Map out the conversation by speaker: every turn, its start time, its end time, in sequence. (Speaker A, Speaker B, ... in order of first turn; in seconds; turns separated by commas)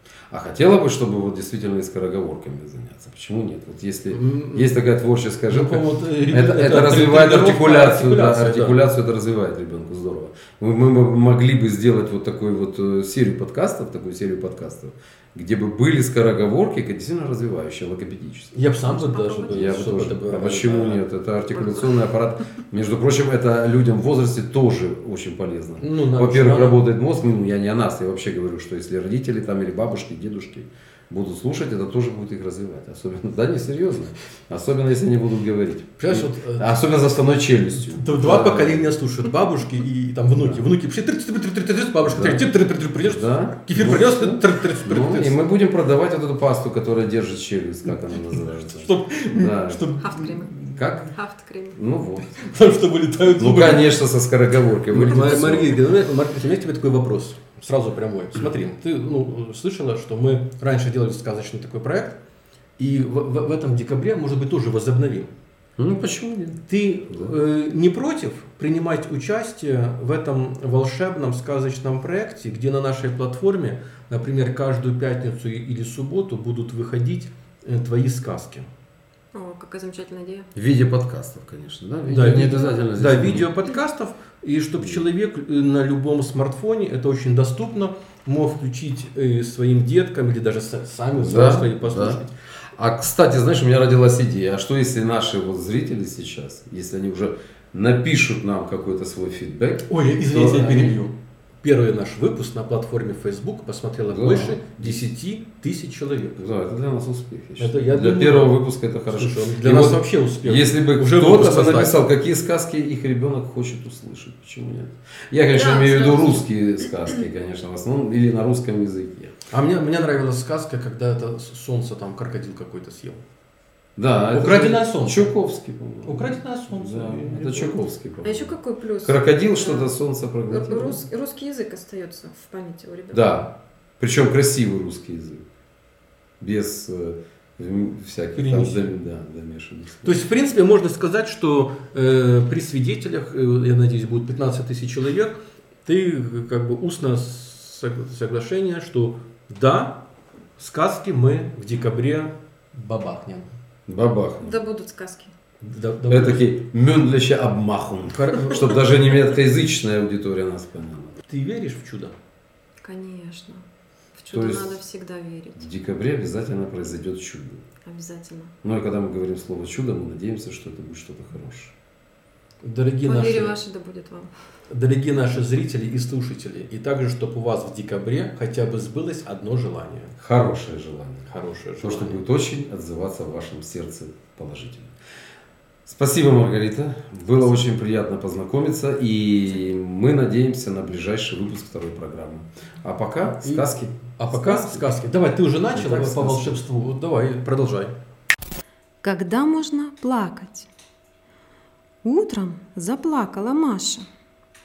Speaker A: 0.3-18.5, Speaker B: 4.1-4.8, Speaker B: 5.5-8.8, Speaker B: 18.5-21.0, Speaker C: 18.8-19.9, Speaker A: 19.5-38.9, Speaker B: 25.8-26.8, Speaker B: 36.0-36.8, Speaker B: 37.8-45.4, Speaker A: 40.4-40.6, Speaker A: 42.0-49.9, Speaker B: 48.7-50.8, Speaker C: 50.0-50.5, Speaker A: 50.8-51.1, Speaker C: 51.1-51.8, Speaker A: 51.7-52.3, Speaker B: 52.4-54.0, Speaker A: 53.3-55.8, Speaker B: 54.9-62.2, Speaker B: 62.8-65.3, Speaker A: 65.8-67.3, Speaker B: 66.7-78.7, Speaker C: 79.3-80.5, Speaker A: 80.5-83.5, Speaker B: 82.0-92.3, Speaker A: 84.8-85.0, Speaker A: 91.1-92.2, Speaker A: 92.7-101.0, Speaker B: 99.9-106.4, Speaker A: 104.1-105.0, Speaker A: 106.4-119.3, Speaker B: 107.6-112.0, Speaker C: 115.5-116.5, Speaker B: 119.5-123.2, Speaker A: 124.0-131.1, Speaker B: 124.3-125.3, Speaker B: 126.0-127.8, Speaker C: 128.2-129.9, Speaker C: 130.5-133.3, Speaker A: 133.1-135.4, Speaker A: 136.4-140.2, Speaker B: 138.3-138.9, Speaker B: 140.0-150.0, Speaker B: 150.6-153.5, Speaker A: 153.9-154.6, Speaker C: 154.4-155.3, Speaker B: 155.6-156.4, Speaker A: 156.1-161.2, Speaker B: 158.1-158.8, Speaker B: 161.3-162.1, Speaker C: 162.8-165.6, Speaker A: 164.3-164.8, Speaker A: 165.6-167.6, Speaker C: 167.8-168.5, Speaker A: 168.6-171.7, Speaker B: 172.6-173.6, Speaker C: 173.0-174.3, Speaker B: 174.7-180.1, Speaker A: 180.2-181.3, Speaker B: 181.3-182.2, Speaker A: 181.8-184.9, Speaker A: 185.8-194.9, Speaker B: 193.4-197.9, Speaker A: 195.7-196.6, Speaker C: 199.0-200.7, Speaker C: 202.0-204.1